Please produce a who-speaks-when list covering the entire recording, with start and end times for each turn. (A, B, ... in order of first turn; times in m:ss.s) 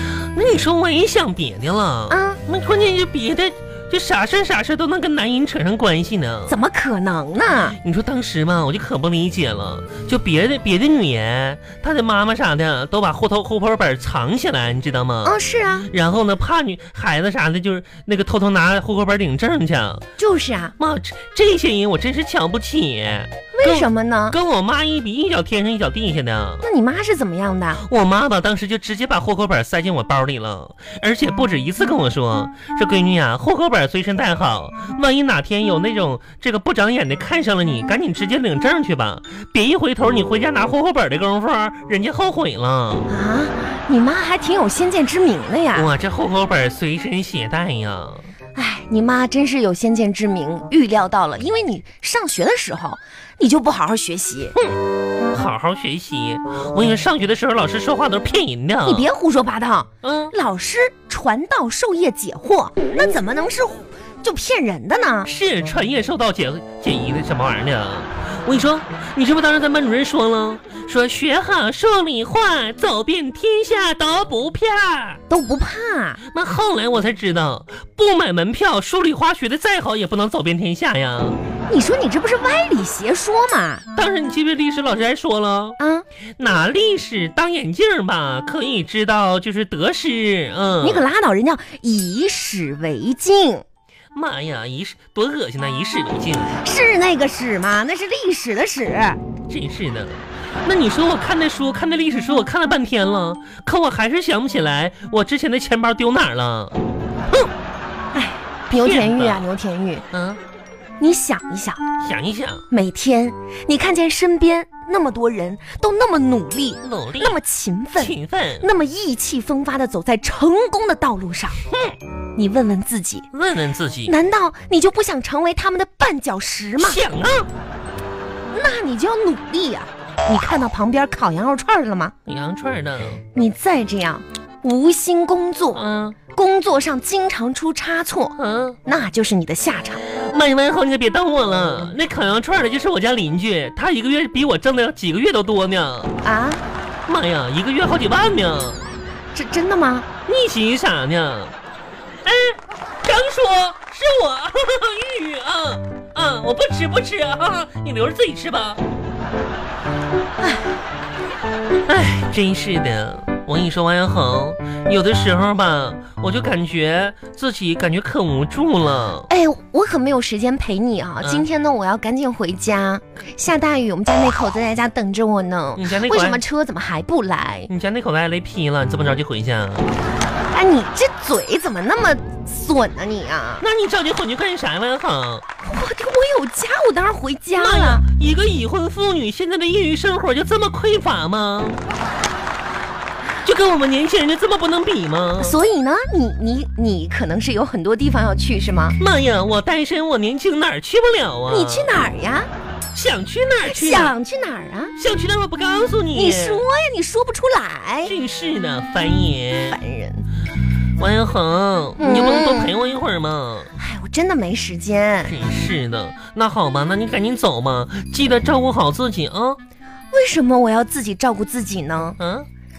0:00.2-0:06.6 A
0:02.1-0:02.4 B
0:06.5-0:07.8 B
0:07.8-0:15.4 A
0:15.2-0:15.9 B
0:15.9-0:20.0 A
0:20.2-0:20.8 B
0:20.8-0:26.6 A
0:23.6-0:24.4 B
0:26.6-0:27.8 B
0:27.8-0:43.1 A
0:43.1-0:45.9 B
0:45.7-0:48.3 A
0:48.6-0:54.6 B
0:55.3-0:59.1 A
0:58.8-1:05.3 B
1:00.0-1:00.3 A
1:05.2-1:15.2 A
1:15.3-1:16.2 B
1:16.3-1:21.4 A
1:21.7-1:23.8 B
1:24.0-1:25.8 A
1:25.8-1:26.0 B
1:26.4-1:31.1 A
1:30.8-1:33.6 B
1:34.1-1:36.6 A
1:36.5-1:39.2 B
1:39.5-1:46.8 A
1:48.1-1:50.0 B
1:48.8-1:49.5 A
1:50.1-1:50.4 A
1:51.0-1:51.8 B
1:52.0-1:52.6 A
1:52.7-2:01.6 B
1:56.8-1:57.4 A
1:58.0-1:58.7 A
2:01.7-2:02.0 A
2:02.4-2:03.3 B
2:03.3-2:04.2 A
2:04.1-2:07.0 B
2:06.8-2:07.5 A
2:08.5-2:12.2 B
2:12.3-2:13.2 A
2:13.3-2:15.8 B
2:15.7-2:16.2 A
2:16.3-2:20.1 B
2:18.4-2:18.8 A
2:20.1-2:26.2 A
2:26.2-2:26.6 B
2:27.1-2:28.9 A
2:29.3-2:30.1 B
2:30.3-2:31.6 A
2:32.2-2:38.8 A
2:40.4-2:40.7 B
2:41.9-2:49.3 A
2:49.3-2:57.7 B
2:55.8-2:56.4 A
2:57.7-2:59.9 A
3:00.5-3:03.6 B
3:03.6-3:05.4 A
3:05.6-3:08.0 B
3:07.6-3:11.8 A
3:13.4-3:15.6 A
3:15.4-3:19.0 B
3:19.0-3:22.0 A
3:21.5-3:22.5 B
3:22.9-3:24.2 A
3:23.6-3:24.9 B
3:25.0-3:26.6 A
3:26.1-3:28.1 B
3:28.0-3:29.8 A
3:29.6-3:30.3 B
3:31.0-3:33.7 A
3:32.0-3:32.7 B
3:33.8-3:35.4 B
3:35.2-3:39.6 A
3:40.1-3:42.2 B
3:42.2-3:42.5 A